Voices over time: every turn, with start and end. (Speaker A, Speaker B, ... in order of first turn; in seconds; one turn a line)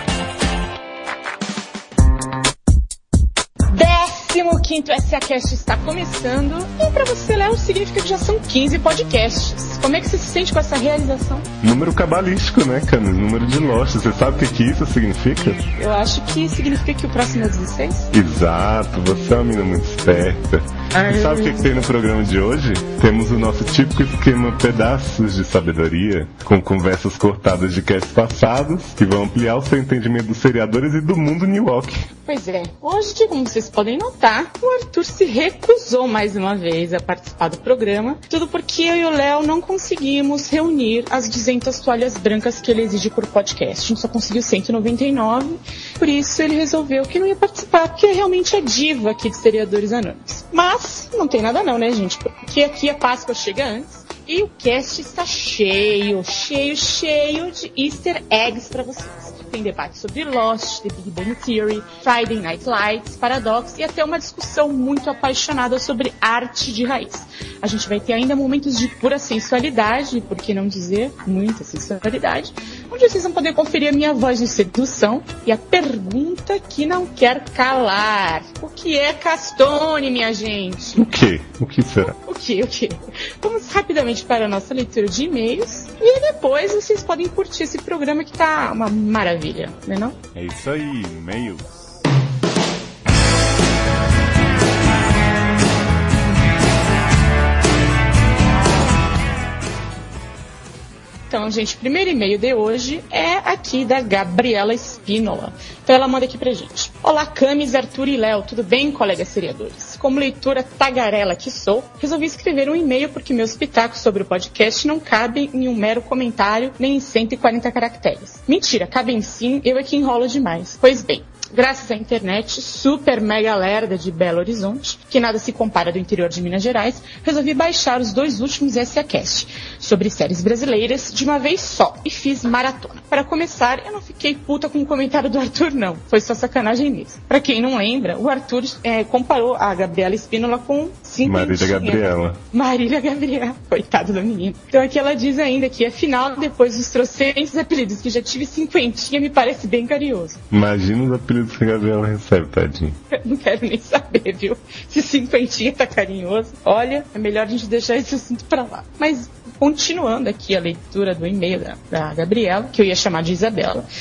Speaker A: 3.7-11.5
Speaker B: 11.6-15.7
Speaker A: 15.8-18.1
Speaker B: 18.1-32.0
Speaker A: 20.9-21.6
Speaker A: 32.3-81.0
Speaker B: 81.0-82.1
Speaker A: 82.0-90.2
Speaker B: 90.3-91.9
Speaker A: 101.3-150.4
Speaker B: 141.2-142.4
Speaker B: 150.5-153.0
Speaker A: 153.1-163.9